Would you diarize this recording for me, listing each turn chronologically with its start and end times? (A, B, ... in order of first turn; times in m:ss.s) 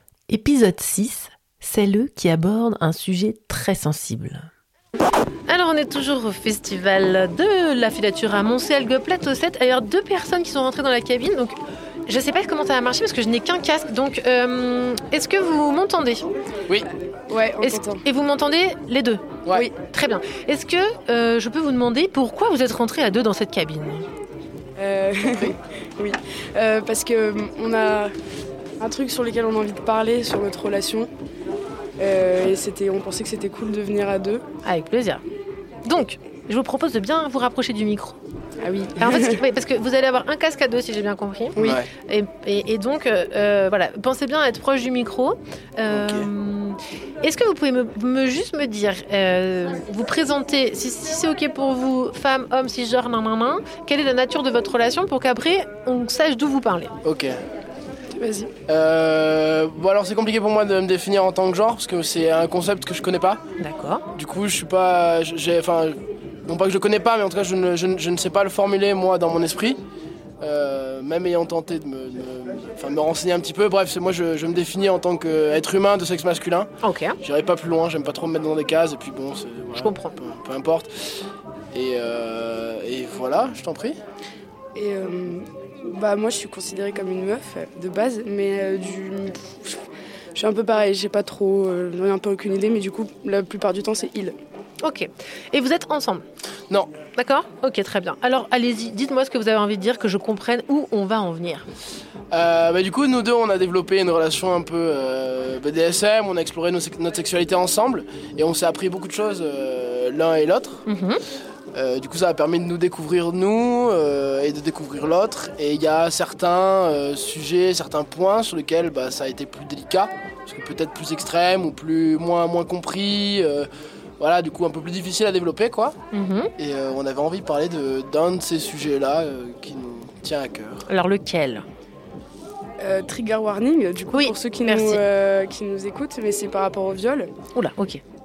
0:00.3-0:04.4 A
0:05.5-0:16.2 A
0:17.3-0:18.0 B
0:17.6-0:24.0 A
0:24.8-0:28.1 B
0:28.8-0:31.1 B
0:32.0-0:34.4 B
0:34.6-0:35.2 A
0:35.8-0:38.2 A
0:38.6-0:39.4 B
0:39.0-0:56.9 A
0:41.5-0:41.8 B
0:41.6-0:41.9 C
0:45.9-0:46.3 C
0:57.0-0:57.4 C
0:58.2-0:58.5 B
0:58.7-1:03.4 C
1:03.6-1:04.0 A
1:04.1-1:09.8 C
1:10.4-1:16.7 C
1:16.8-1:17.2 A
1:17.2-1:20.9 C
1:19.7-1:20.2 A
1:21.7-1:24.0 C
1:24.7-1:29.8 B
1:30.3-1:34.3 B
1:34.8-1:36.2 A
1:37.1-1:41.6 A
1:42.3-1:50.8 C
1:50.9-1:51.2 A
1:51.7-2:03.7 C
2:04.2-2:06.0 C
2:06.1-2:06.5 A
2:06.6-2:10.8 C
2:10.9-2:11.6 A
2:12.8-2:17.3 B
2:14.1-2:15.0 A
2:17.5-2:18.0 A